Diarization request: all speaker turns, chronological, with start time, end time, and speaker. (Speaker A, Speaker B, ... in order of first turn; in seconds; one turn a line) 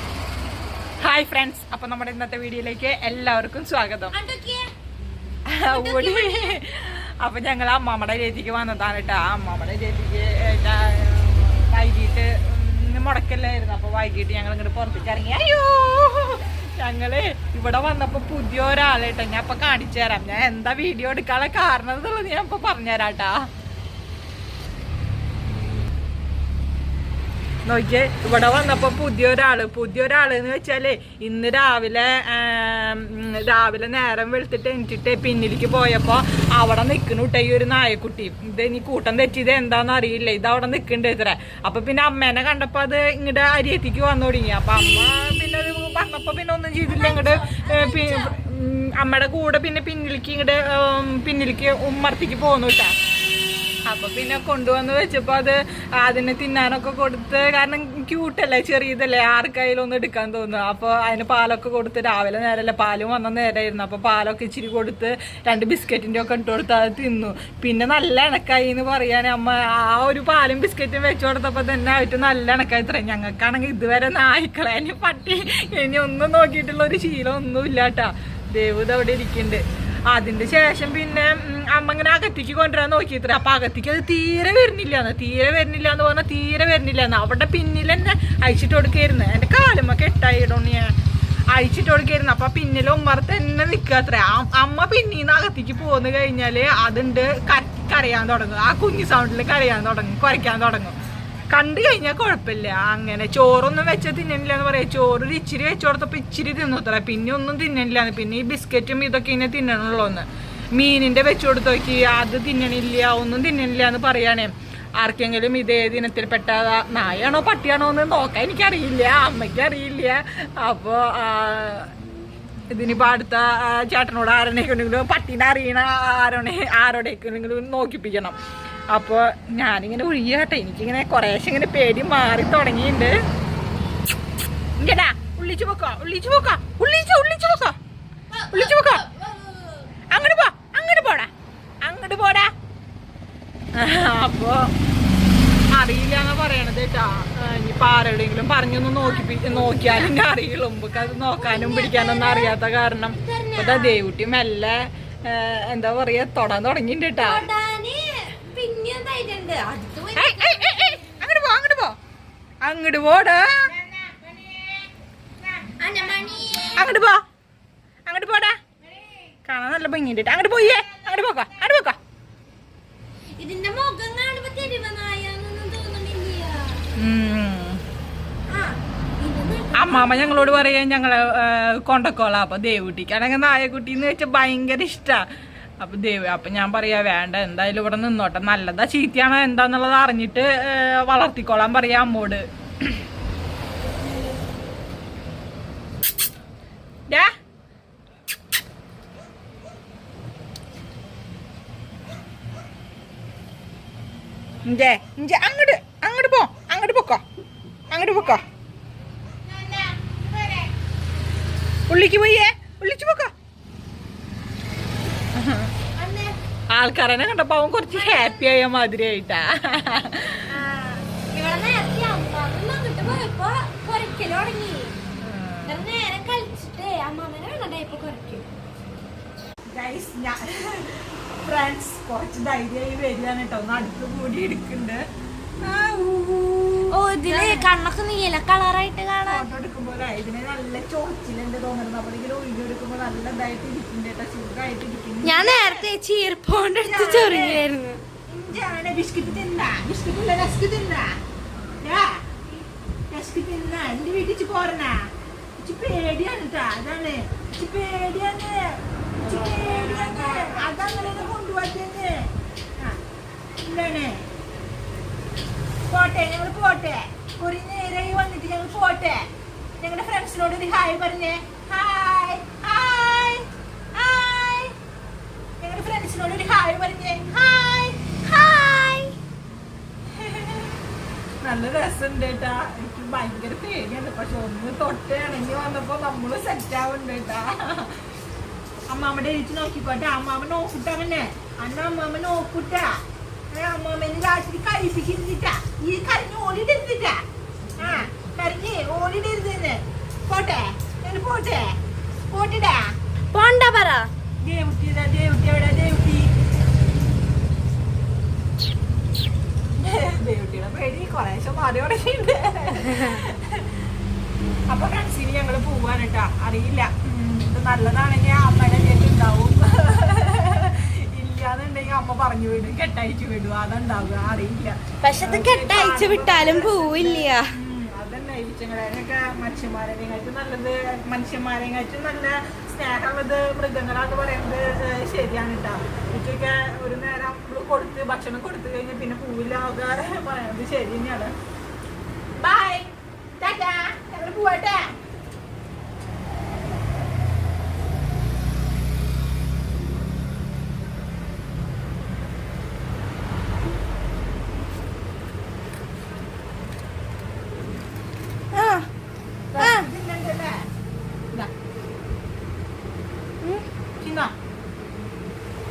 Speaker A: 1.0-4.1
Speaker B: 4.1-4.7
Speaker A: 5.5-23.3
Speaker B: 5.7-6.6
Speaker A: 27.6-52.9
Speaker B: 46.8-48.4
Speaker A: 53.9-90.9
Speaker A: 91.5-100.9
Speaker A: 101.5-121.9
Speaker A: 122.7-128.3
Speaker A: 128.9-133.1
Speaker A: 134.8-137.8
Speaker B: 138.3-139.9
Speaker A: 138.5-139.1
Speaker A: 140.1-141.3
Speaker A: 141.8-142.5
Speaker A: 143.8-144.7
Speaker A: 145.7-157.5
Speaker B: 149.0-150.2
Speaker B: 150.9-154.0
Speaker B: 157.1-161.1
Speaker A: 160.1-161.9
Speaker A: 162.6-163.6
Speaker B: 163.8-164.6
Speaker B: 165.6-167.0
Speaker A: 166.8-167.2
Speaker A: 168.1-168.6
Speaker A: 169.4-172.0
Speaker B: 173.4-176.8
Speaker A: 177.0-177.8
Speaker B: 178.5-180.8
Speaker A: 179.7-185.2
Speaker A: 185.8-193.0
Speaker A: 204.7-207.2
Speaker A: 207.9-208.4
Speaker B: 209.5-210.7
Speaker A: 211.9-213.3
Speaker A: 215.3-215.7
Speaker B: 215.9-216.3
Speaker A: 216.7-220.4
Speaker B: 217.9-218.5
Speaker B: 220.5-225.0
Speaker A: 225.2-225.8
Speaker B: 225.6-228.4
Speaker A: 229.7-235.0
Speaker A: 235.6-237.7
Speaker B: 236.9-239.4
Speaker A: 239.2-245.8
Speaker B: 245.2-248.0
Speaker A: 246.8-247.6
Speaker A: 248.3-251.1
Speaker A: 251.8-252.1
Speaker A: 253.1-255.0
Speaker A: 255.6-258.7
Speaker A: 259.2-262.2
Speaker A: 263.6-264.2
Speaker A: 265.9-269.2
Speaker A: 269.8-273.4
Speaker A: 273.9-274.7
Speaker A: 275.6-279.1
Speaker A: 280.1-280.8
Speaker A: 281.4-288.0
Speaker A: 288.9-293.0
Speaker A: 293.5-297.2
Speaker A: 297.8-301.7
Speaker A: 302.3-302.9
Speaker B: 303.3-304.1
Speaker A: 304.4-306.3
Speaker A: 309.8-313.7
Speaker A: 314.7-341.3
Speaker B: 325.0-327.5
Speaker A: 342.4-342.9
Speaker A: 343.4-344.9
Speaker B: 358.5-358.9
Speaker A: 359.5-360.6
Speaker B: 359.5-359.9
Speaker A: 364.0-364.3